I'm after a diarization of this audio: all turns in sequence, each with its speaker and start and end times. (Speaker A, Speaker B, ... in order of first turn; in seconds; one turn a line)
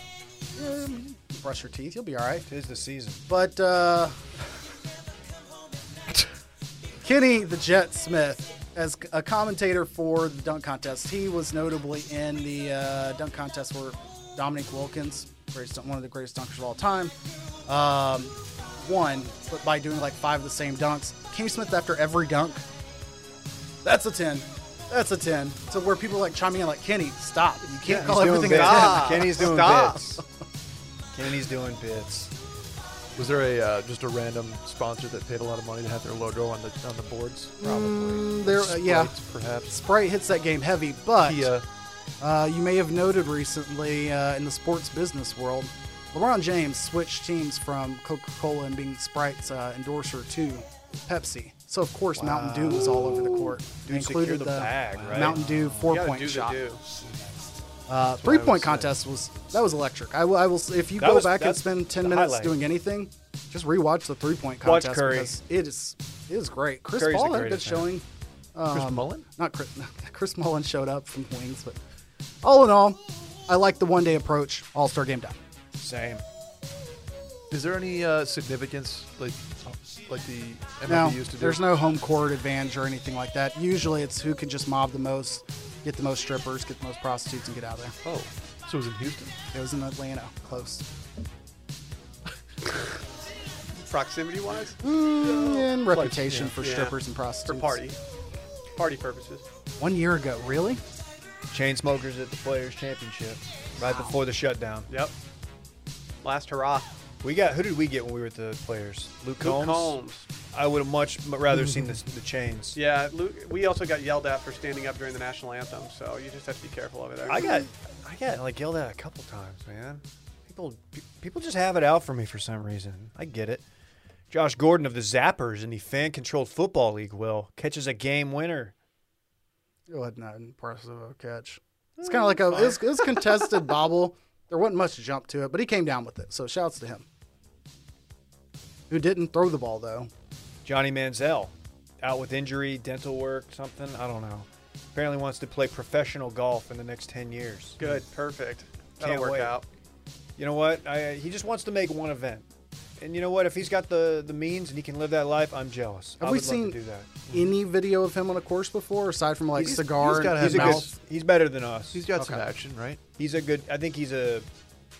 Speaker A: 0.6-2.5
Speaker B: 2.5-3.2
Speaker A: 3.3-4.2
Speaker A: 7.0-17.1
Speaker A: 17.6-22.6
Speaker A: 23.8-29.4
Speaker C: 27.8-30.1
Speaker B: 27.9-30.2
Speaker B: 31.1-32.3
Speaker D: 33.1-39.8
Speaker A: 37.6-39.1
Speaker A: 39.7-41.5
Speaker D: 41.2-41.6
Speaker A: 42.2-56.6
Speaker B: 52.2-55.8
Speaker C: 55.8-56.8
Speaker A: 57.9-68.0
Speaker D: 58.1-58.9
Speaker B: 61.0-62.6
Speaker B: 64.6-65.3
Speaker B: 67.0-67.9
Speaker A: 68.5-71.8
Speaker D: 68.7-69.3
Speaker A: 72.4-75.4
Speaker B: 75.8-76.2
Speaker D: 77.5-81.6
Speaker A: 80.9-88.0
Speaker D: 88.0-89.3
Speaker A: 89.5-90.8
Speaker C: 93.8-94.8
Speaker A: 94.8-97.8
Speaker D: 95.2-96.5
Speaker C: 96.6-98.0
Speaker C: 98.7-99.4
Speaker A: 99.8-100.8
Speaker B: 101.5-104.9
Speaker A: 103.8-104.2
Speaker C: 106.2-106.9
Speaker B: 107.2-110.0
Speaker C: 109.4-110.2
Speaker B: 110.5-112.8
Speaker C: 112.7-117.5
Speaker B: 117.3-123.6
Speaker B: 124.3-128.7
Speaker A: 129.9-137.0
Speaker B: 132.4-132.7
Speaker A: 138.9-140.1
Speaker B: 140.6-148.0
Speaker C: 147.8-149.6
Speaker B: 149.0-149.6
Speaker B: 150.4-152.5
Speaker B: 153.0-157.1
Speaker A: 156.2-160.9
Speaker D: 159.5-160.9
Speaker B: 160.3-162.1
Speaker D: 161.9-163.0
Speaker A: 162.1-162.5
Speaker B: 163.2-164.5